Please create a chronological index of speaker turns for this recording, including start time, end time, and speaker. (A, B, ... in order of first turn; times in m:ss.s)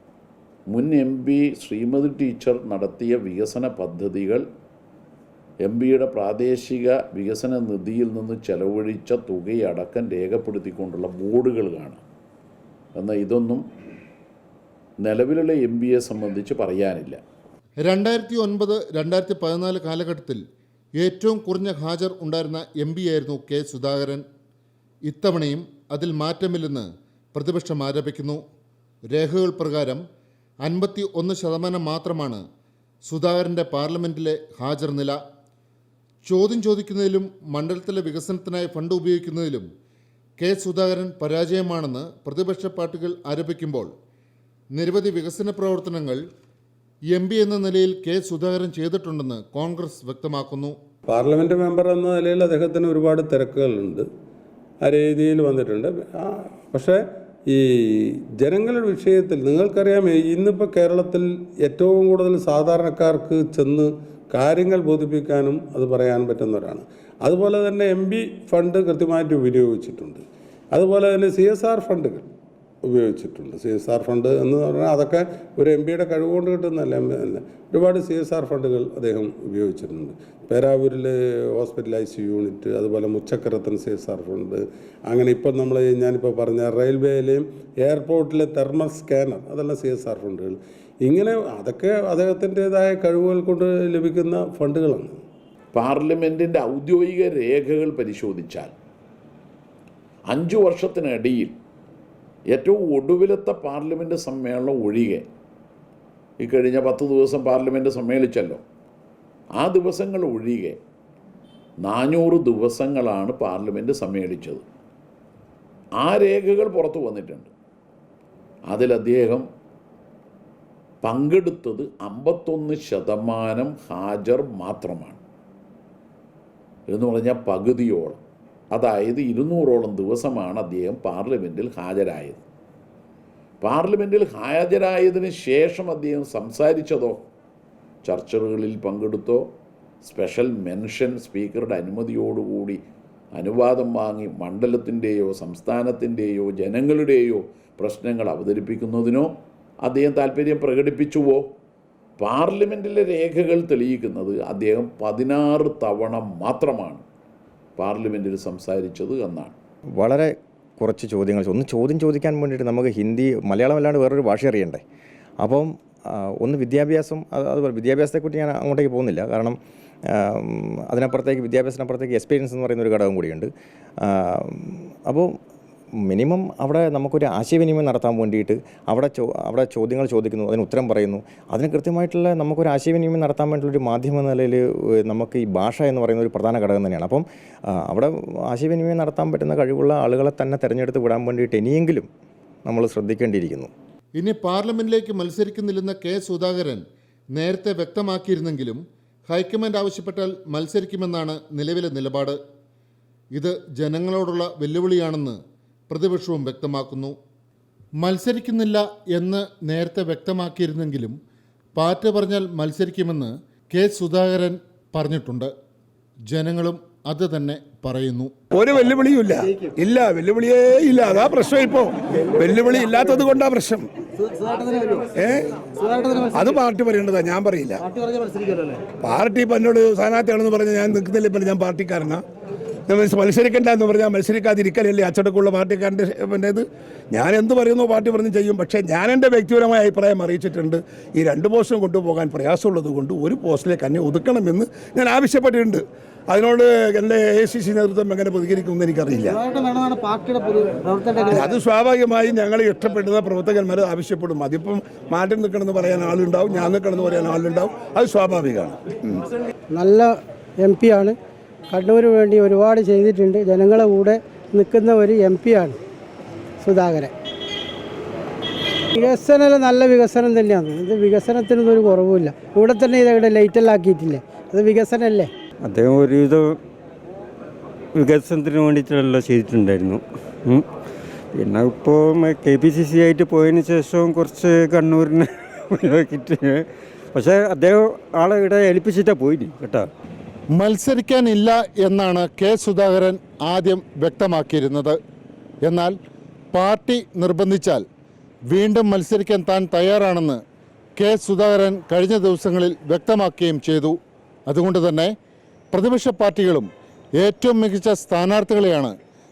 0:00.7-0:04.4 A
0:05.6-0:12.0 A
0:13.0-0:13.6 A
0:15.0-0:17.2 A
0:17.8-0:20.4 B
0:21.0-0:24.2 B
0:25.1-0:28.4 B
0:29.1-0:30.0 B
0:30.6-0:32.4 B
0:33.1-0:35.2 B
0:36.2-0:39.7 B
0:40.4-0:43.9 B
0:44.7-0:46.2 B
0:47.1-0:50.8 B
0:51.1-0:54.1 C
0:54.8-1:12.3 C
1:12.8-1:35.2 C
1:35.7-1:38.7 A
1:40.3-1:41.5 A
1:42.5-1:45.2 A
1:46.4-1:48.6 A
1:49.6-1:50.8 A
1:51.8-1:54.6 A
1:56.0-1:57.5 A
1:58.7-1:59.5 A
2:01.0-2:05.2 A
2:06.9-2:08.2 A
2:08.7-2:12.4 A
2:13.6-2:17.2 A
2:18.0-2:19.4 A
2:20.0-2:22.8 A
2:23.4-2:29.3 A
2:29.8-2:31.5 A
2:32.2-2:37.0 A
2:37.8-2:39.6 A
2:40.0-2:44.8 D
2:45.4-2:49.6 D
2:50.1-2:55.3 D
2:56.0-3:12.1 D
3:12.7-3:13.7 D
3:14.2-3:16.8 B
3:17.4-3:22.4 B
3:23.3-3:25.4 B
3:25.9-3:27.2 B
3:28.0-3:31.2 B
3:31.8-3:35.5 B
3:36.3-3:38.3 B
3:38.5-3:43.9 E
3:45.1-3:47.9 E
3:49.0-3:52.2 E
3:52.9-4:09.4 E
4:09.9-4:10.8 F
4:11.3-4:19.2 E
4:19.7-4:21.2 F
4:21.7-4:25.8 F
4:26.6-4:27.1 F
4:28.9-4:35.3 F
4:35.6-4:36.6 G
4:37.9-4:40.7 G
4:41.3-4:49.9 G
4:50.5-4:55.0 B
4:55.6-4:56.0 B
4:56.5-4:57.8 B
4:58.5-5:00.4 B
5:01.0-5:05.1 B
5:05.7-5:09.0 B